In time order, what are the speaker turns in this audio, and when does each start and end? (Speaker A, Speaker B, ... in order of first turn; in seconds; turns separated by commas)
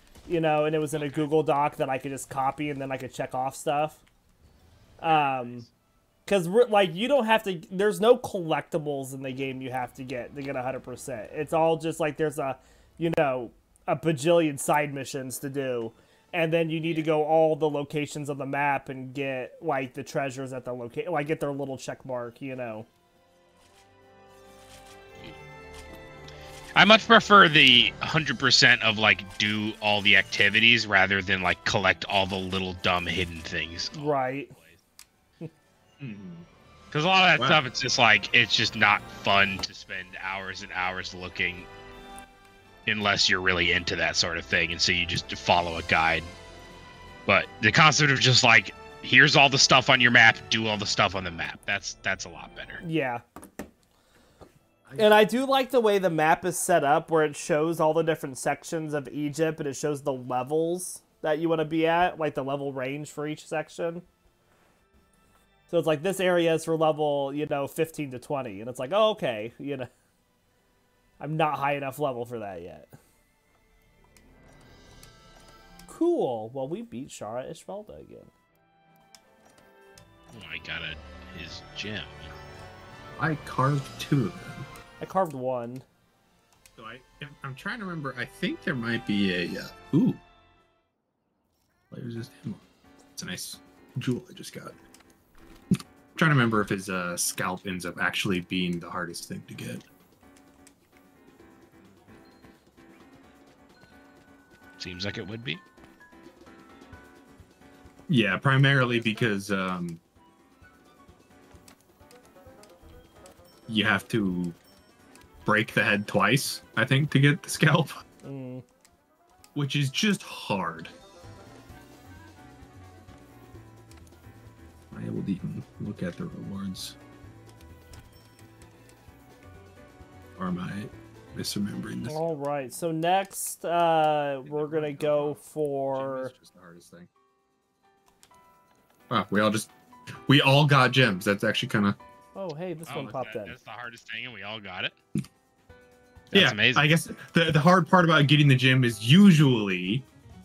Speaker A: 0.3-4.0, Speaker B: 0.9-1.3, Speaker A: 5.0-5.7, Speaker B: 5.0-5.7, Speaker A: 6.3-22.9, Speaker B: 26.8-34.8, Speaker A: 33.9-34.5, Speaker C: 36.0-36.5, Speaker B: 36.9-41.7, Speaker B: 42.9-46.3, Speaker B: 47.3-52.8, Speaker A: 52.8-53.2, Speaker C: 54.9-55.2, Speaker A: 55.0-64.0, Speaker A: 65.7-69.9, Speaker A: 71.2-72.9, Speaker A: 75.9-78.3, Speaker B: 80.3-82.3, Speaker C: 83.2-84.7, Speaker A: 85.0-85.8, Speaker C: 86.8-90.2, Speaker C: 91.9-92.6, Speaker C: 93.2-94.8, Speaker C: 96.2-99.9, Speaker B: 104.8-105.6, Speaker C: 108.1-110.0, Speaker C: 113.7-114.6, Speaker C: 115.5-118.0, Speaker A: 118.2-118.7, Speaker C: 119.5-120.9, Speaker C: 124.9-127.0, Speaker C: 130.4-132.3, Speaker A: 132.1-136.3, Speaker C: 134.4-137.1, Speaker C: 139.1-142.0, Speaker A: 142.3-143.6, Speaker B: 142.9-145.0, Speaker B: 146.3-146.9, Speaker C: 146.3-150.0